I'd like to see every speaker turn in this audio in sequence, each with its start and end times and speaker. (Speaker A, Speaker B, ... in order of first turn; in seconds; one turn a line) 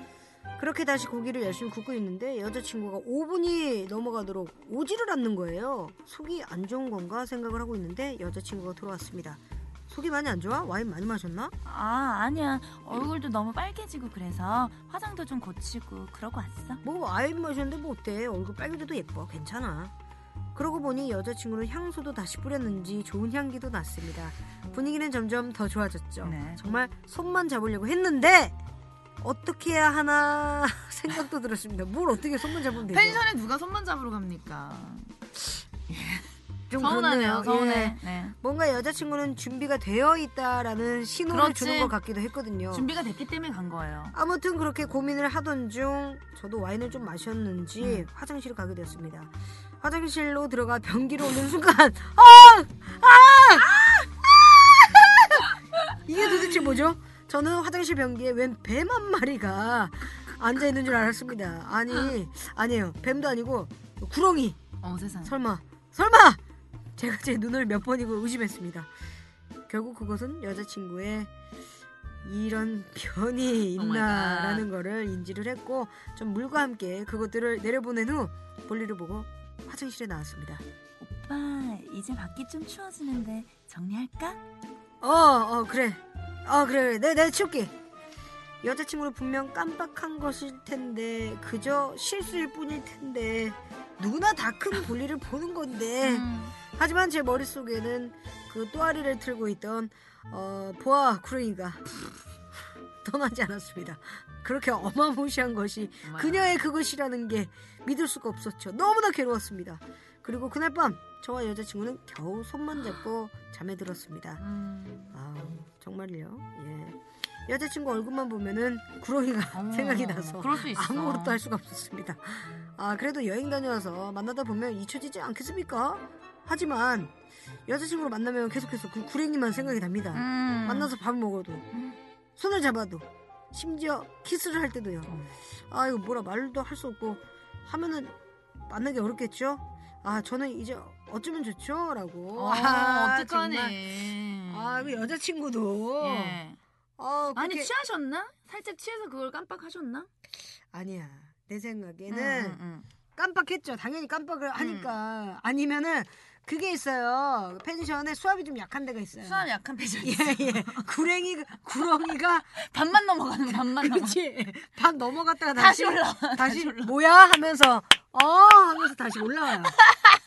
Speaker A: 0.6-11.5
Speaker B: 11.6-16.8
Speaker A: 16.8-19.9
Speaker A: 20.5-28.5
Speaker B: 26.2-26.7
Speaker A: 29.2-33.2
Speaker B: 32.7-35.1
Speaker B: 35.9-38.4
Speaker A: 36.7-42.9
Speaker B: 41.3-42.0
Speaker B: 42.7-44.1
Speaker A: 44.1-64.6
Speaker B: 47.8-48.1
Speaker B: 55.8-56.8
Speaker B: 64.8-65.4
Speaker A: 65.2-66.4
Speaker A: 67.0-68.9
Speaker A: 69.7-71.3
Speaker A: 72.2-80.6
Speaker B: 73.7-74.7
Speaker B: 81.0-84.4
Speaker A: 85.0-87.7
Speaker A: 88.6-102.0
Speaker B: 96.0-96.6
Speaker A: 103.0-114.4
Speaker B: 106.0-106.6
Speaker B: 114.4-115.2
Speaker A: 115.1-127.1
Speaker B: 119.5-121.4
Speaker A: 127.7-131.6
Speaker B: 130.1-130.9
Speaker A: 132.4-138.1
Speaker A: 138.7-143.9
Speaker B: 142.3-145.1
Speaker A: 144.5-146.4
Speaker B: 146.0-146.6
Speaker A: 147.0-147.7
Speaker B: 147.3-150.1
Speaker A: 150.7-152.6
Speaker B: 152.1-152.9
Speaker A: 153.2-162.6
Speaker B: 154.6-154.9
Speaker B: 159.2-160.9
Speaker B: 162.6-164.2
Speaker A: 163.5-169.7
Speaker B: 165.5-166.9